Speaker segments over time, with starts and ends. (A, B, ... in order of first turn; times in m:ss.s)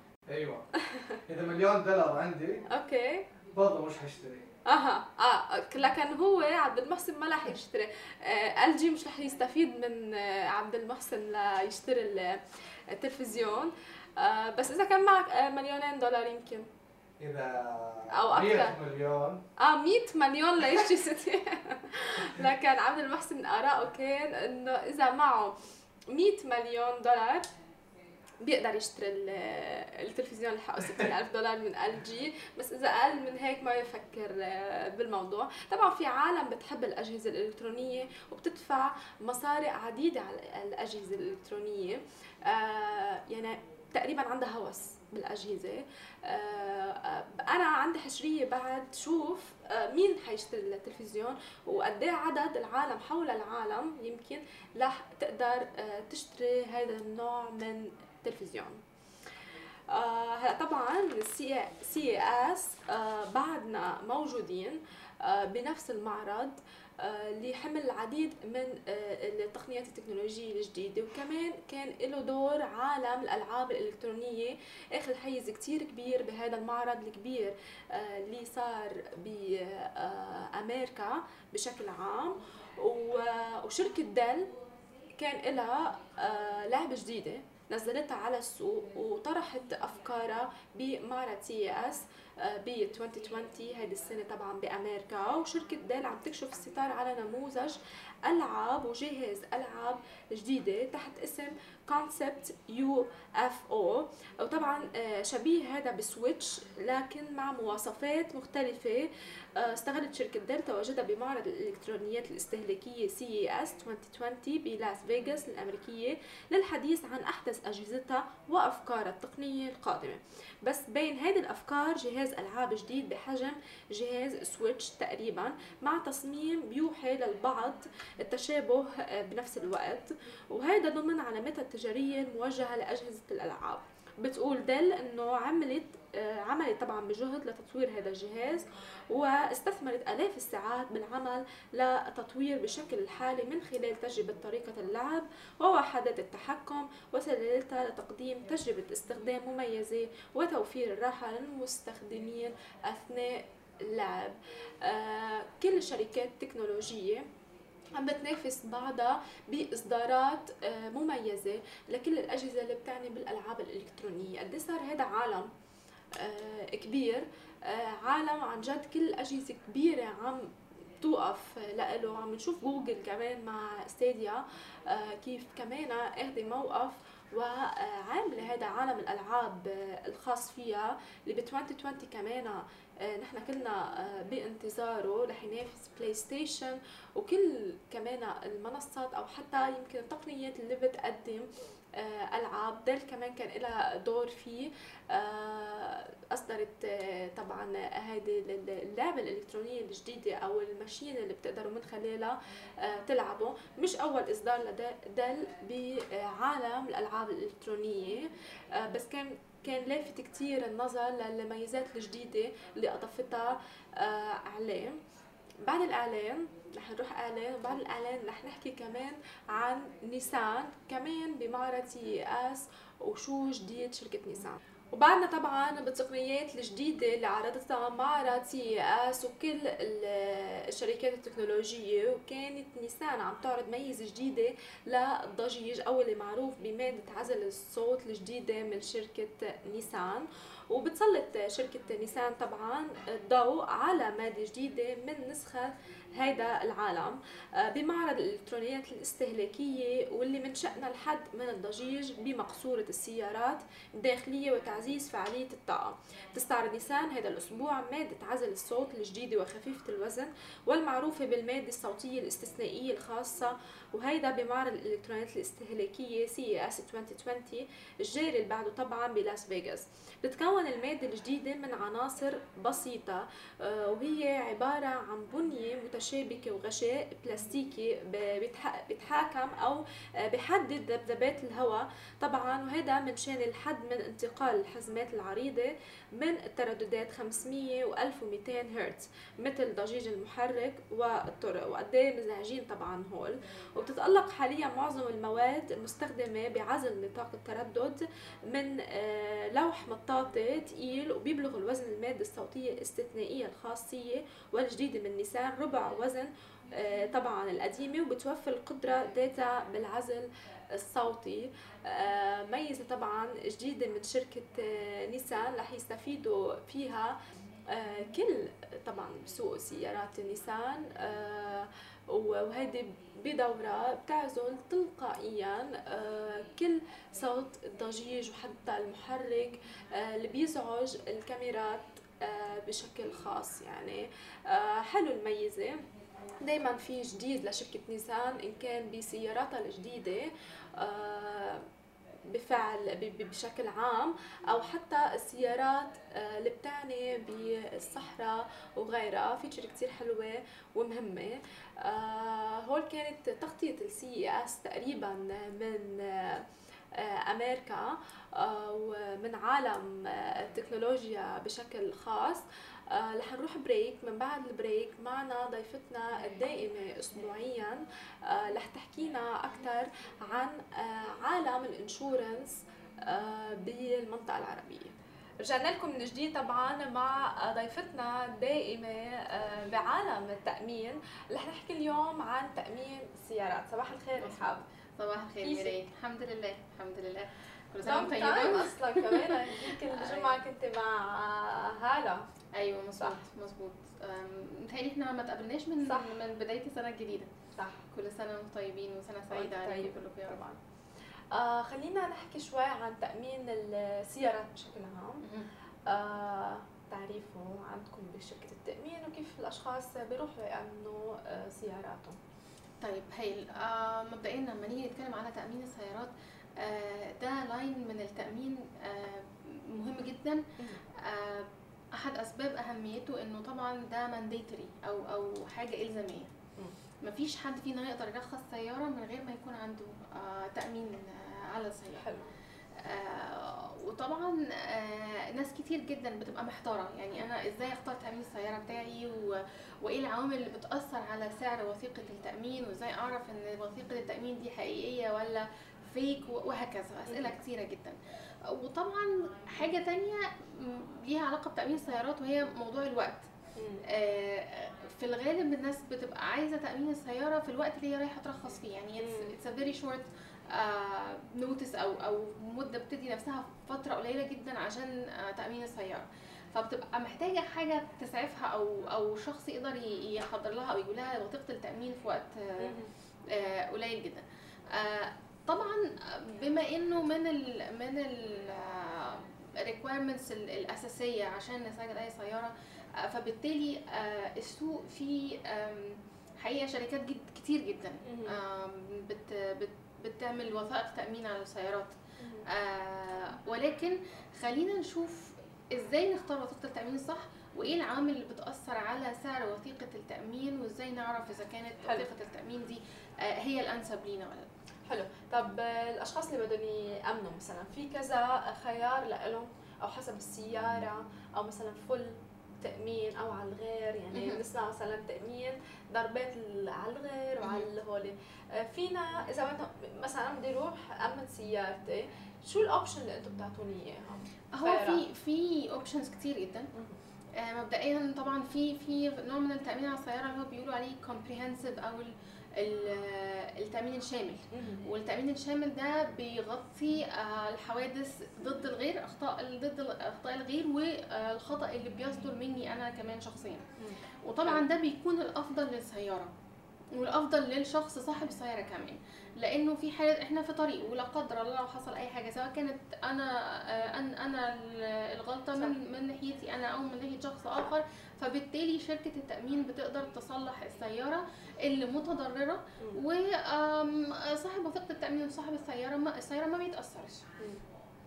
0:00.3-0:00.6 A
0:00.8-0:01.2 B
0:01.2-0:02.6 A
0:02.7-0:03.3 B
0:03.5-0:04.5 A
0:04.6-0:16.7 B
0:17.2-0:19.4 A
0:18.1-0:18.7 B
0:19.6-0:25.6 B
0:26.1-0:27.5 B
0:28.4-0:58.8 B
0:59.9-1:24.5 B
1:25.2-2:37.3 B
2:37.9-2:45.5 B
2:46.2-3:35.0 B
3:35.6-5:35.8 B
5:36.4-5:41.6 B
5:42.3-6:24.6 B
6:24.2-6:30.4 C
6:25.4-6:25.7 B
6:27.8-6:32.2 B
6:32.5-6:37.3 C
6:35.8-6:36.1 B
6:37.6-6:37.8 B
6:37.9-6:40.4 C
6:39.3-6:40.6 B
6:41.3-6:45.2 B
6:45.2-6:45.5 C
6:45.9-6:52.2 B
6:52.8-7:06.3 C
7:00.6-7:00.8 B
7:07.0-7:12.1 C
7:12.0-7:12.3 B
7:12.8-7:33.3 C
7:27.0-7:27.4 B
7:33.6-7:33.8 B
7:33.9-8:24.5 C
7:39.0-7:39.3 B
7:52.6-7:52.9 B
8:08.0-8:08.4 B
8:12.2-8:12.4 B
8:24.9-8:45.0 B
8:34.1-8:34.4 C
8:37.4-8:37.7 C
8:44.5-8:46.7 C
8:47.4-9:03.7 C
8:54.5-8:54.8 B
9:03.8-9:04.6 B
9:04.2-9:06.3 C
9:06.9-9:27.3 C